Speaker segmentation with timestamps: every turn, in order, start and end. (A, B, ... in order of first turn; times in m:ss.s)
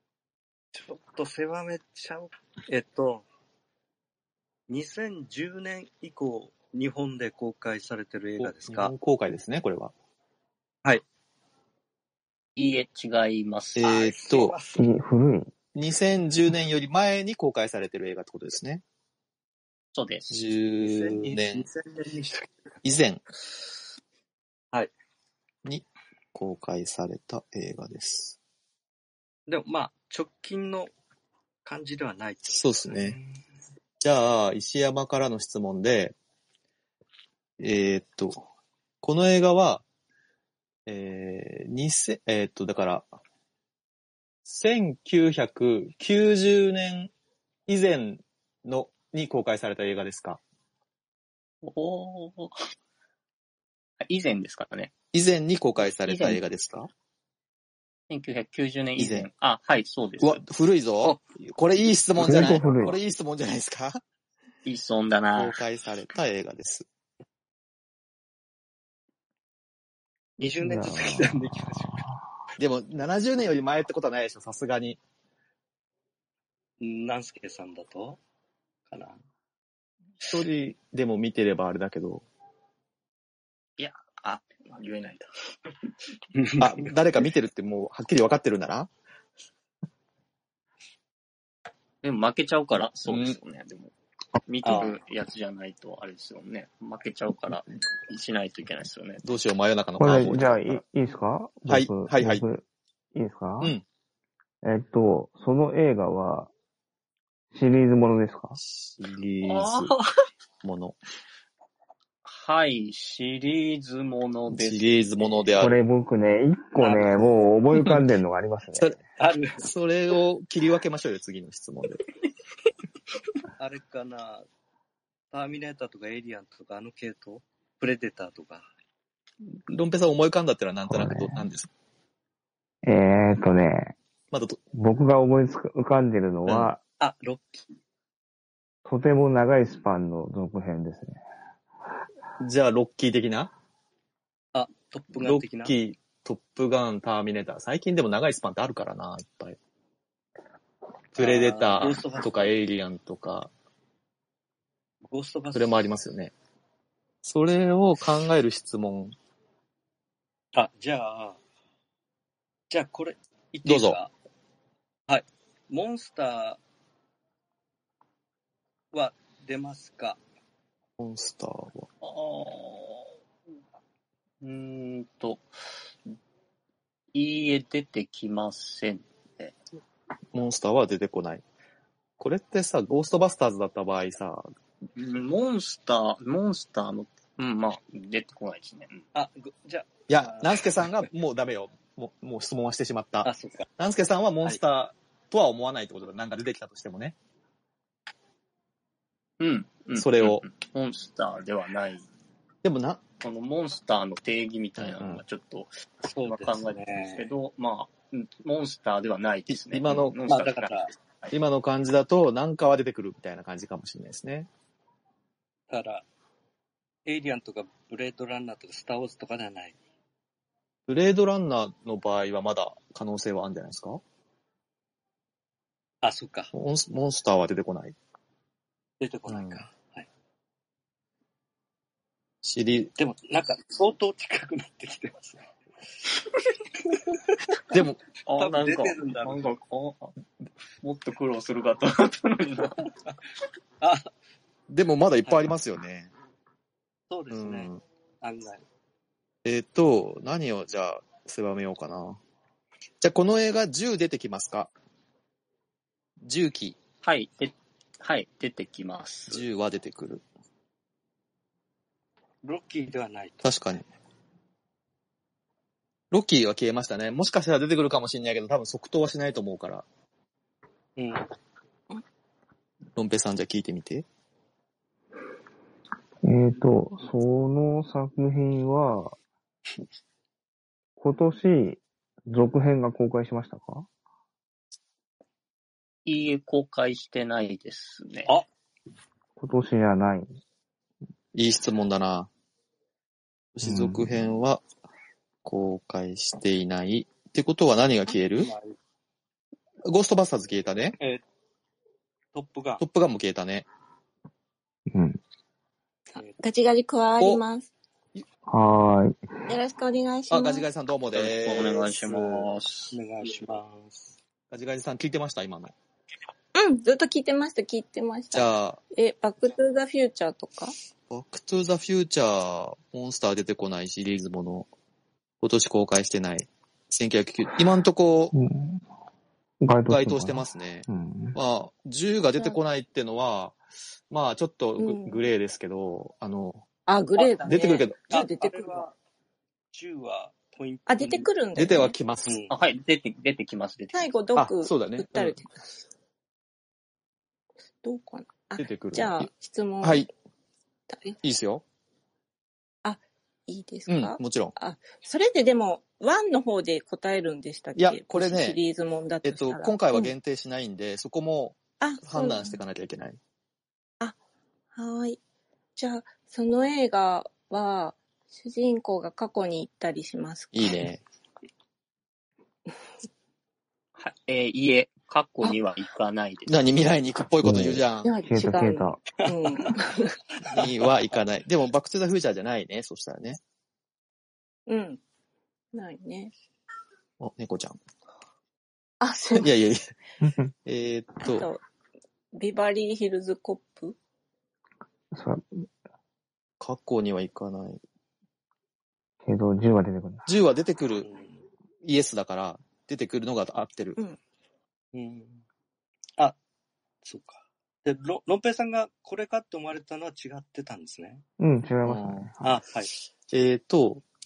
0:00.7-0:03.2 A
0:04.7-0:08.9 A
0:08.4-0:09.9 B
0:12.6-0:13.8 C
0:13.8-0:14.6 B
0:13.8-0:14.8 A
0:14.8-0:15.5 D
0:15.7-0:18.8 B
0:19.9-0:20.3 C
0:20.3-0:21.6 B
0:20.8-0:22.5 A
0:22.8-0:23.2 B
0:25.6-0:28.4 B
0:29.5-0:30.9 A
0:31.6-0:33.4 A
0:32.5-0:33.2 B
0:34.0-0:36.1 B
0:37.6-0:38.4 B
0:39.0-0:39.8 B
0:40.9-0:43.1 B
0:44.4-0:47.1 B
0:47.7-0:50.4 B
0:51.6-0:52.6 C
0:54.0-0:54.9 C
0:55.1-0:56.9 B
0:55.8-0:56.4 C
0:58.1-1:00.4 C
0:59.0-0:59.2 B
1:00.2-1:04.0 B
1:02.2-1:03.0 D
1:04.6-1:05.6 C
1:05.3-1:06.8 B
1:10.4-1:12.1 A
1:10.4-1:12.2 D
1:12.6-1:15.0 B
1:16.8-1:18.2 A
1:18.9-1:19.2 A
1:20.2-1:22.2 B
1:23.8-1:25.3 C
1:26.4-1:26.7 A
1:26.6-1:28.9 B
1:32.0-1:33.9 C
1:33.0-1:33.4 B
1:34.5-1:39.2 C
1:34.6-1:35.0 A
1:39.2-1:40.8 B
1:40.0-1:42.6 D
1:41.7-1:42.4 B
1:43.1-1:43.7 D
1:44.6-1:46.5 D
1:47.5-1:48.6 D
1:48.6-1:49.9 B
1:49.4-1:50.1 C
1:50.6-1:51.0 B
1:52.2-1:55.7 C
1:54.5-1:55.7 B
1:55.6-1:59.0 D
1:56.8-1:57.3 A
1:59.2-1:59.6 A
1:59.6-2:02.0 B
2:03.6-2:04.4 A
2:05.3-2:08.7 A
2:09.7-2:11.7 B
2:10.9-2:11.4 D
2:12.8-2:13.9 D
2:14.3-2:14.6 B
2:14.7-2:16.8 D
2:16.4-2:16.7 B
2:17.0-2:17.6 A
2:18.8-2:21.2 D
2:22.4-2:23.5 B
2:24.5-2:25.7 A
2:25.2-2:29.6 B
2:31.1-2:33.5 B
2:31.2-2:32.5 A
2:35.1-2:35.9 A
2:35.5-2:36.3 B
2:37.2-2:39.1 B
2:40.5-2:41.4 A
2:42.7-2:44.1 A
2:43.6-2:44.0 B
2:45.1-2:46.6 A
2:48.9-2:50.2 A
2:51.0-2:51.9 B
2:52.0-2:53.1 C
2:54.4-2:55.4 C
2:57.1-2:59.6 C
3:00.3-3:01.4 B
3:02.2-3:04.5 B
3:05.0-3:09.0 C
3:09.1-3:10.9 A
3:10.1-3:17.1 B
3:13.2-3:13.7 A
3:19.4-3:22.0 C
3:19.9-3:20.4 B
3:22.6-3:23.0 B
3:23.2-3:31.3 C
3:24.8-3:25.2 B
3:26.1-3:27.3 A
3:29.5-3:30.2 B
3:30.3-3:30.9 A
3:31.3-3:34.5 B
3:35.7-3:36.0 A
3:37.0-3:39.8 A
3:40.9-3:44.0 B
3:46.0-3:46.5 A
3:46.5-3:48.0 B
3:49.0-3:50.0 A
3:49.3-3:49.6 B
3:52.4-3:52.9 B
3:53.0-3:55.4 A
3:57.7-3:58.0 B
3:58.2-4:00.1 C
3:58.4-3:59.5 A
4:00.8-4:02.9 C
4:03.8-4:04.1 A
4:04.7-4:06.1 B
4:07.1-4:08.6 A
4:07.3-4:07.8 B
4:09.4-4:12.2 B
4:13.0-4:14.7 B
4:16.2-4:16.8 B
4:17.0-4:19.4 C
4:19.3-4:20.2 B
4:22.4-4:23.5 A
4:23.4-4:23.8 B
4:26.1-4:29.8 B
4:31.0-4:31.3 A
4:33.0-4:34.0 B
4:36.2-4:39.1 D
4:41.0-4:43.8 D
4:46.0-4:48.3 C
4:49.4-4:50.3 D
4:51.3-4:52.3 B
4:53.6-4:54.6 B
4:53.6-4:54.1 D
4:55.4-4:58.5 B
4:58.1-4:58.8 A
4:59.8-5:01.0 B
5:02.3-5:02.8 A
5:02.8-5:03.7 B
5:04.9-5:05.2 D
5:06.2-5:07.7 E
5:08.5-5:09.5 D
5:09.5-5:10.6 E
5:10.3-5:12.0 B
5:11.1-5:13.0 C
5:12.0-5:14.1 A
5:14.5-5:15.7 B
5:16.5-5:20.7 E
5:18.3-5:18.8 B
5:21.1-5:24.7 B
5:25.4-5:28.3 B
5:28.3-5:28.8 D
5:29.6-5:31.4 D
5:29.9-5:33.6 B
5:34.1-5:36.6 B
5:34.8-5:35.2 E
5:36.9-5:38.8 E
5:37.2-5:38.9 A
5:37.4-5:38.0 B
5:39.7-5:41.3 A
5:40.9-5:41.9 E
5:41.6-5:42.4 B
5:42.2-5:42.5 A
5:42.5-5:44.1 C
5:43.9-5:45.5 E
5:44.3-5:45.4 B
5:47.8-5:50.1 E
5:48.6-5:49.3 B
5:49.8-5:50.1 B
5:50.9-5:51.2 E
5:51.2-5:51.6 B
5:52.8-6:00.1 E
5:53.9-5:54.5 B
5:57.8-5:58.6 B
5:59.2-6:03.2 B
6:01.8-6:02.6 E
6:04.7-6:05.2 E
6:05.8-6:10.8 E
6:10.5-6:11.0 B
6:14.0-6:16.6 C
6:16.5-6:18.1 B
6:17.4-6:19.0 D
6:18.0-6:20.2 E
6:19.2-6:19.8 A
6:20.5-6:23.4 B
6:24.7-6:25.0 E
6:25.7-6:26.3 E
6:27.2-6:27.8 B
6:29.0-6:29.5 E
6:29.3-6:29.9 B
6:30.2-6:30.5 D
6:30.6-6:31.5 B
6:31.2-6:31.6 E
6:32.3-6:34.0 E
6:35.1-6:35.6 D
6:36.6-6:37.8 B
6:39.2-6:40.2 D
6:40.2-6:41.1 B
6:41.0-6:41.4 A
6:41.8-6:44.0 B
6:44.9-6:45.4 A
6:47.0-6:51.2 A
6:51.4-6:52.6 D
6:51.8-6:52.3 B
6:52.4-6:52.9 A
6:53.3-6:54.0 B